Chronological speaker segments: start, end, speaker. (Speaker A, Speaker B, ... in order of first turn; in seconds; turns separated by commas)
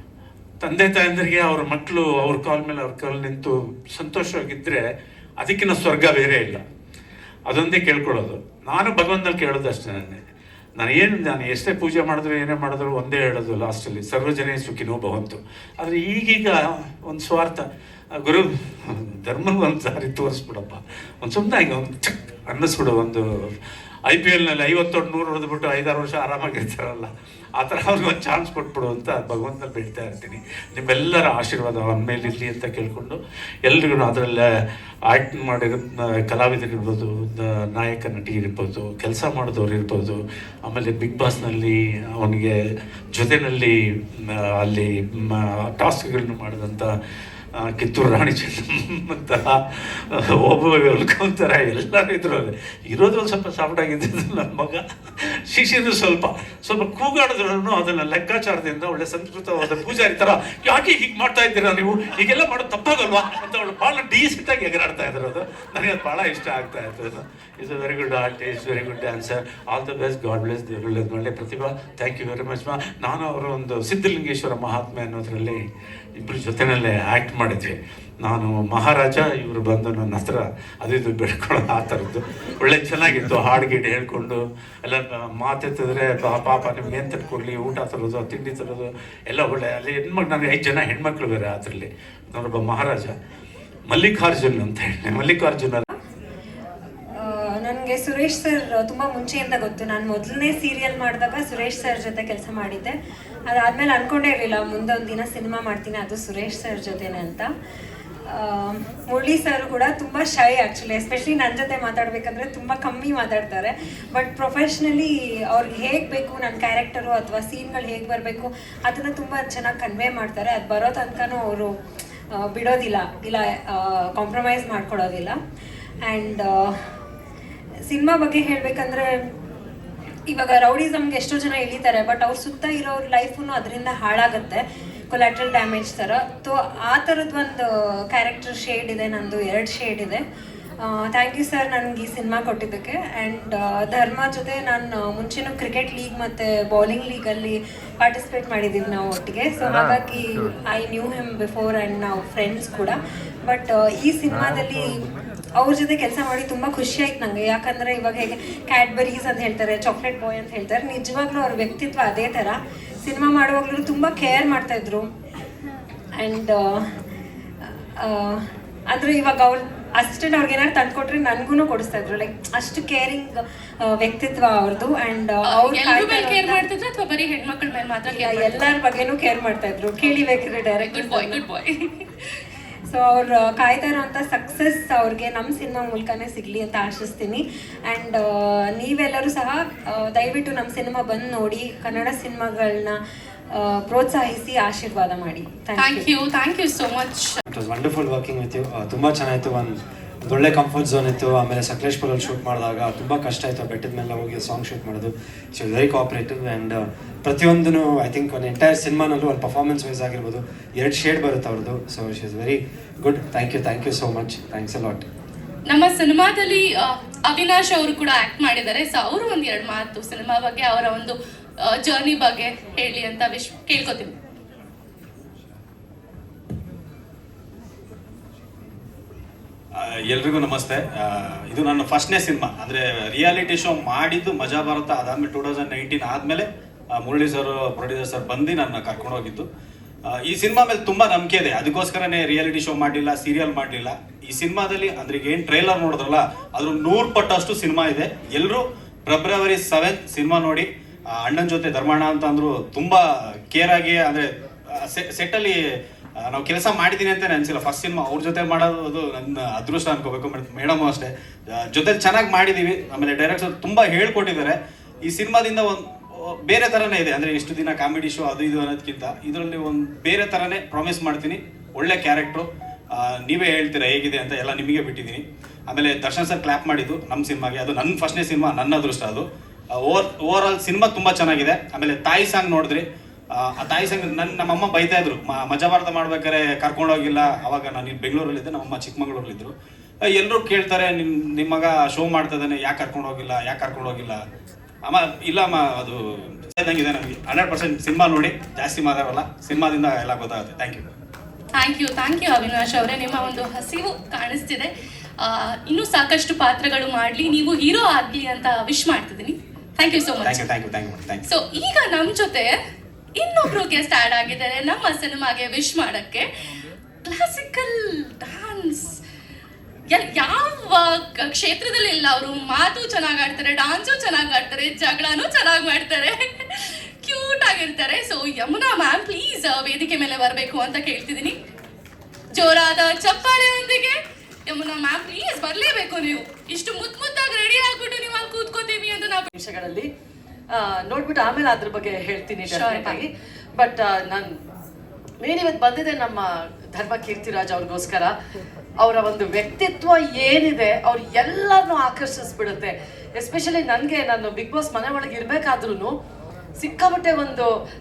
Speaker A: 0.6-4.8, Speaker A: 5.4-6.6, Speaker A: 7.5-10.2, Speaker A: 10.8-17.6, Speaker A: 18.1-23.2, Speaker A: 24.1-34.4, Speaker A: 35.1-42.5, Speaker A: 43.1-43.7, Speaker A: 44.3-46.9, Speaker A: 47.5-49.6, Speaker A: 50.1-54.8, Speaker A: 55.5-75.6, Speaker A: 76.2-93.1, Speaker A: 93.9-95.8, Speaker B: 97.2-102.9, Speaker B: 103.5-107.5, Speaker B: 108.3-121.7, Speaker B: 122.3-125.4, Speaker B: 126.0-126.7, Speaker B: 127.9-129.2, Speaker B: 130.3-140.2, Speaker B: 140.8-155.0, Speaker B: 155.6-165.1, Speaker B: 166.2-166.9, Speaker B: 168.0-176.7, Speaker C: 175.4-178.7, Speaker B: 178.0-181.4, Speaker C: 180.8-182.0, Speaker B: 182.9-193.0, Speaker B: 193.5-196.1, Speaker C: 195.8-197.4, Speaker D: 197.5-215.1, Speaker C: 215.7-224.1, Speaker E: 229.8-239.5, Speaker E: 240.0-255.6, Speaker E: 256.2-294.2, Speaker E: 294.8-300.9, Speaker C: 301.6-304.7, Speaker C: 305.2-310.4, Speaker E: 310.2-311.2, Speaker C: 311.3-312.5, Speaker C: 313.1-316.2, Speaker C: 317.0-319.0, Speaker C: 319.9-331.3, Speaker C: 332.4-339.3, Speaker F: 339.3-339.9, Speaker F: 340.5-344.3, Speaker C: 342.4-343.0, Speaker F: 345.2-348.1, Speaker F: 348.8-355.9, Speaker F: 356.6-357.5